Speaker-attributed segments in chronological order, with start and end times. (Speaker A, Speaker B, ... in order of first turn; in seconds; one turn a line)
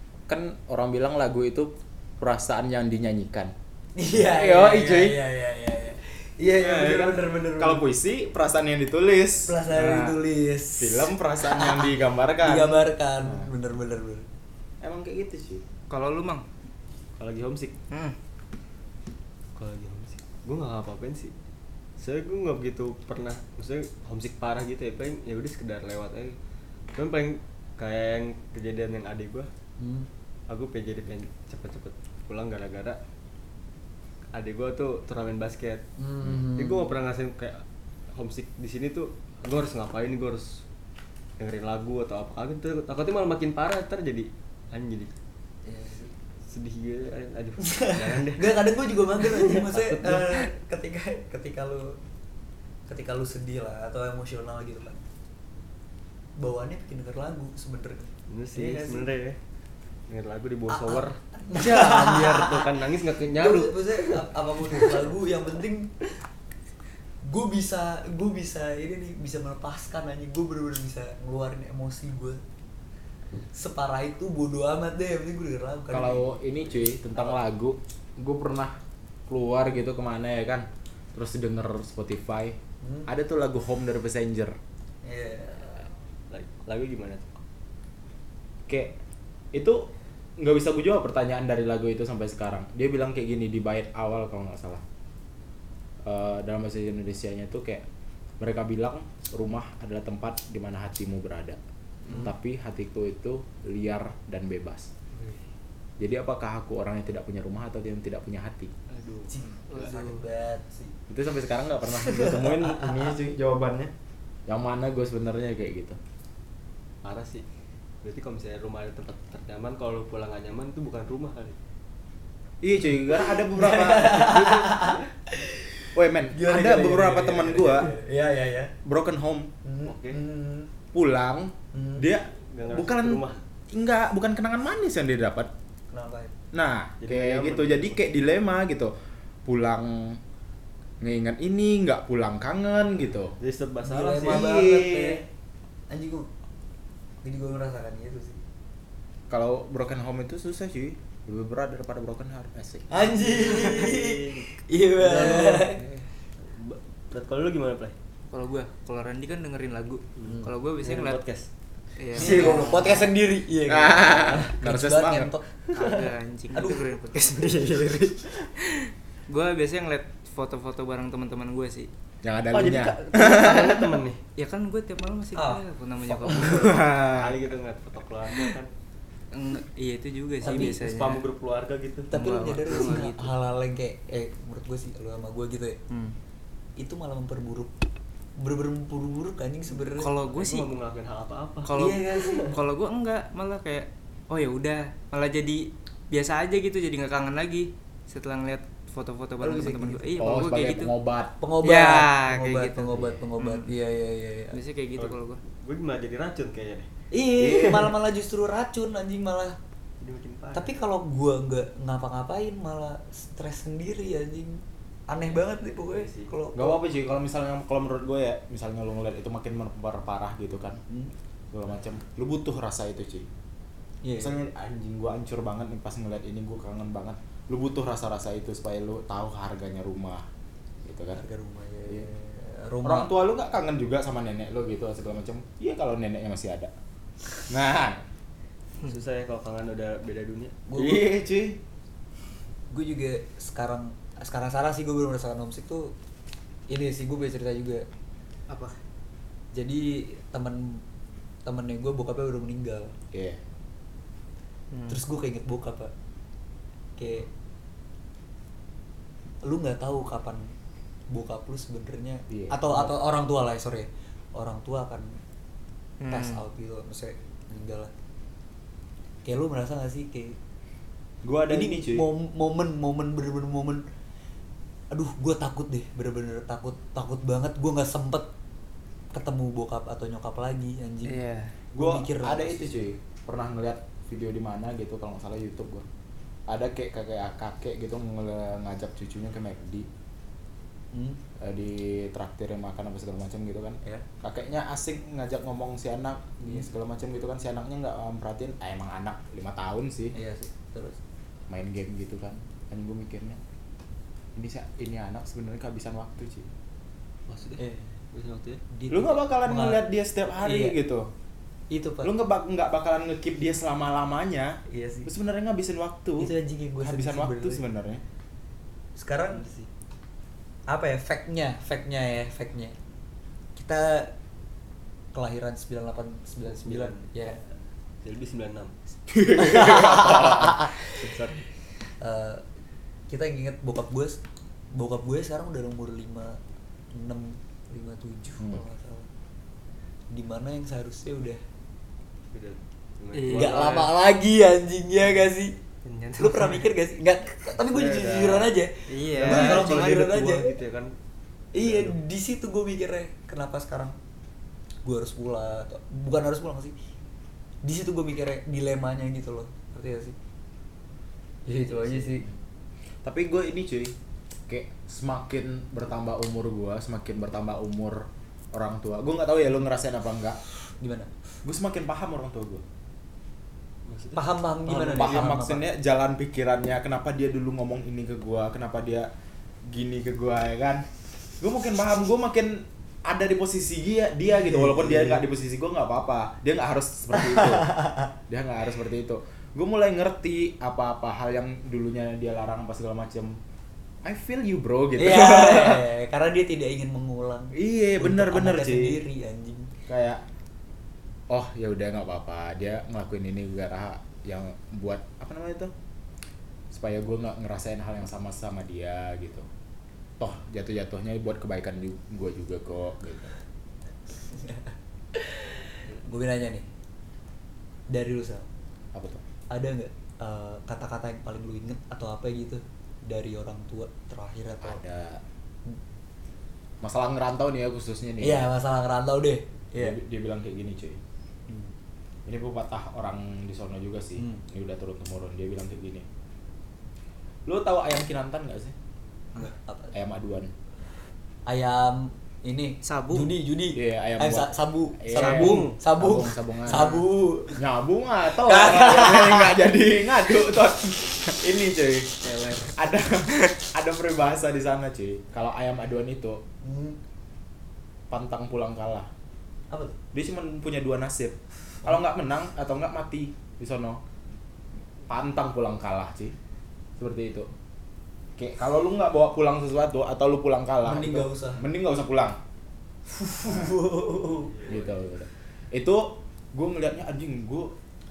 Speaker A: 0.3-3.5
Speaker B: 4.0-7.8
Speaker A: 4.1-5.2
Speaker C: 6.5-7.5
Speaker A: 7.6-10.2
Speaker B: 9.4-11.9
Speaker A: 10.8-13.5
Speaker B: 12.4-14.2
Speaker A: 14.8-15.6
Speaker D: 15.9-16.4
Speaker C: 17.2-17.7
Speaker D: 17.9-18.1
Speaker C: 19.5-21.3
Speaker C: 22.0-26.4
Speaker C: 26.9-29.5
Speaker B: 29.8-30.1
Speaker C: 30.5-33.0
Speaker C: 34.3-35.8
Speaker B: 36.0-36.9
Speaker C: 36.5-40.6
Speaker C: 41.4-45.1
Speaker B: 45.6-46.1
Speaker C: 46.5-48.6
Speaker B: 47.6-52.0
Speaker C: 49.2-50.5
Speaker B: 52.9-55.0
Speaker B: 56.4-59.1
Speaker C: 58.3-59.4
Speaker C: 60.1-65.0
Speaker B: 60.7-62.7
Speaker B: 63.3-66.0
Speaker B: 67.2-72.4
Speaker B: 73.5-76.4
Speaker A: 75.9-84.5
Speaker B: 82.8-83.1
Speaker B: 85.0-85.9
Speaker C: 86.3-87.4
Speaker A: 88.7-88.9
Speaker A: 89.5-94.8
Speaker A: 96.0-97.8
Speaker A: 98.4-104.9
Speaker A: 106.0-108.7
Speaker C: 108.9-109.3
Speaker B: 109.3-111.0
Speaker D: 109.7-110.2
Speaker A: 111.1-113.9
Speaker B: 112.0-112.9
Speaker A: 114.5-116.0
Speaker C: 117.0-117.4
Speaker C: 118.0-121.6
Speaker A: 122.6-124.7
Speaker B: 123.1-128.7
Speaker C: 124.1-125.0
Speaker A: 125.9-127.9
Speaker A: 128.8-129.5
Speaker B: 129.6-130.7
Speaker C: 129.8-130.2
Speaker A: 130.9-135.5
Speaker B: 131.7-132.1
Speaker C: 132.4-133.4
Speaker B: 135.9-136.3
Speaker A: 136.5-138.9
Speaker C: 137.0-138.0
Speaker A: 139.4-140.2
Speaker A: 141.0-143.3
Speaker C: 143.4-144.4
Speaker B: 143.8-145.2
Speaker A: 144.2-145.2
Speaker B: 145.9-146.3
Speaker B: 147.2-148.4
Speaker A: 149.3-152.9
Speaker B: 152.9-155.8
Speaker C: 153.1-157.9
Speaker D: 158.3-161.2
Speaker C: 160.2-161.5
Speaker D: 162.0-162.9
Speaker C: 162.1-163.0
Speaker B: 162.1-165.5
Speaker A: 163.7-165.3
Speaker C: 165.7-166.1
Speaker D: 165.7-171.9
Speaker B: 166.5-166.8
Speaker A: 172.2-174.0
Speaker C: 172.5-174.2
Speaker D: 174.3-176.9
Speaker B: 175.3-176.7
Speaker A: 176.5-177.4
Speaker C: 177.0-178.7
Speaker D: 179.3-181.2
Speaker C: 180.4-182.1
Speaker B: 180.4-180.8
Speaker B: 182.1-185.8
Speaker D: 182.1-183.3
Speaker C: 182.7-182.9
Speaker D: 185.9-186.2
Speaker B: 186.8-187.7
Speaker B: 188.4-190.1
Speaker D: 189.9-190.7
Speaker C: 190.2-191.8
Speaker D: 191.6-200.9
Speaker B: 191.8-192.5
Speaker B: 199.4-200.1
Speaker A: 200.2-201.3
Speaker B: 201.4-204.6
Speaker D: 201.6-203.7
Speaker D: 204.5-205.4
Speaker C: 204.9-206.9
Speaker B: 207.1-209.6
Speaker C: 207.4-207.9
Speaker C: 210.0-210.7
Speaker B: 210.5-216.8
Speaker C: 215.9-216.3
Speaker A: 216.6-220.8
Speaker A: 221.5-223.3
Speaker B: 224.0-224.4
Speaker A: 224.2-230.3
Speaker A: 230.8-231.2
Speaker B: 231.1-233.1
Speaker A: 232.8-236.7
Speaker A: 237.5-238.0
Speaker C: 238.8-240.6
Speaker B: 240.7-241.1
Speaker A: 240.7-241.6
Speaker B: 242.7-245.9
Speaker B: 246.7-247.8
Speaker D: 248.5-248.8
Speaker B: 249.5-250.8
Speaker B: 251.4-252.9
Speaker A: 253.1-253.4
Speaker D: 254.7-255.0
Speaker B: 254.9-255.9
Speaker B: 257.0-257.3
Speaker B: 259.4-260.5
Speaker B: 261.1-265.2
Speaker A: 262.3-262.9
Speaker D: 266.0-266.4
Speaker B: 266.1-267.9
Speaker B: 269.2-270.4
Speaker A: 271.2-272.0
Speaker B: 271.5-273.8
Speaker B: 274.9-278.3
Speaker B: 279.1-281.2
Speaker D: 281.1-281.6
Speaker A: 281.7-285.9
Speaker B: 281.8-282.9
Speaker A: 286.5-289.9
Speaker B: 290.9-291.2
Speaker A: 291.4-300.1
Speaker B: 300.1-301.0
Speaker A: 301.5-303.4
Speaker A: 304.4-306.5
Speaker C: 307.3-307.6
Speaker B: 307.6-307.9
Speaker C: 308.1-308.6
Speaker B: 308.7-309.8
Speaker A: 308.9-311.1
Speaker B: 310.4-310.8
Speaker B: 311.7-312.1
Speaker A: 312.0-318.0
Speaker B: 314.7-315.1
Speaker B: 316.2-317.6
Speaker B: 319.0-319.4
Speaker C: 319.3-319.7
Speaker B: 320.7-322.8
Speaker B: 323.6-324.1
Speaker B: 325.1-327.4
Speaker C: 326.6-327.1
Speaker C: 328.0-328.7
Speaker A: 329.1-330.6
Speaker B: 329.3-330.9
Speaker C: 330.9-331.4
Speaker B: 332.0-332.4
Speaker B: 333.1-334.2
Speaker B: 334.7-336.4
Speaker B: 336.9-339.1
Speaker B: 340.1-341.4
Speaker C: 342.3-343.9
Speaker D: 343.1-343.9
Speaker B: 343.3-345.6
Speaker D: 345.8-346.6
Speaker B: 346.2-350.5
Speaker C: 347.6-348.5
Speaker D: 348.9-349.9
Speaker C: 349.1-350.9
Speaker B: 351.5-354.0
Speaker C: 351.6-351.9
Speaker B: 354.8-356.7
Speaker B: 357.6-360.1
Speaker B: 361.4-362.2
Speaker A: 363.0-363.9
Speaker A: 364.5-370.4
Speaker B: 370.8-371.1
Speaker A: 371.4-372.6
Speaker C: 373.9-374.3
Speaker B: 374.1-375.6
Speaker A: 374.7-379.1
Speaker A: 379.6-380.9
Speaker A: 381.4-387.7
Speaker B: 384.4-385.2
Speaker B: 387.1-388.1
Speaker A: 388.3-393.4
Speaker A: 394.0-395.8
Speaker B: 395.0-399.7
Speaker A: 397.5-399.0
Speaker A: 399.9-400.2
Speaker A: 401.3-405.7
Speaker A: 406.7-409.5
Speaker A: 410.2-413.3
Speaker B: 414.3-416.7
Speaker B: 417.9-418.5
Speaker A: 418.9-419.2
Speaker B: 419.5-424.8
Speaker A: 424.6-425.2
Speaker A: 426.8-428.5
Speaker B: 428.2-430.0
Speaker A: 429.8-431.0
Speaker A: 432.2-436.0
Speaker A: 437.5-438.7
Speaker B: 439.3-439.9
Speaker A: 439.9-440.5
Speaker B: 441.5-447.6
Speaker D: 442.8-443.3
Speaker A: 443.7-446.9
Speaker C: 445.1-445.8
Speaker D: 446.7-447.0
Speaker A: 447.5-456.4
Speaker B: 448.4-449.5
Speaker B: 456.6-457.0
Speaker A: 458.1-459.1
Speaker B: 459.7-459.9
Speaker A: 460.1-464.0
Speaker A: 465.1-466.3
Speaker A: 467.0-467.5
Speaker A: 468.4-472.4
Speaker B: 470.8-471.6
Speaker B: 473.1-474.6
Speaker C: 474.5-474.9
Speaker A: 474.7-477.7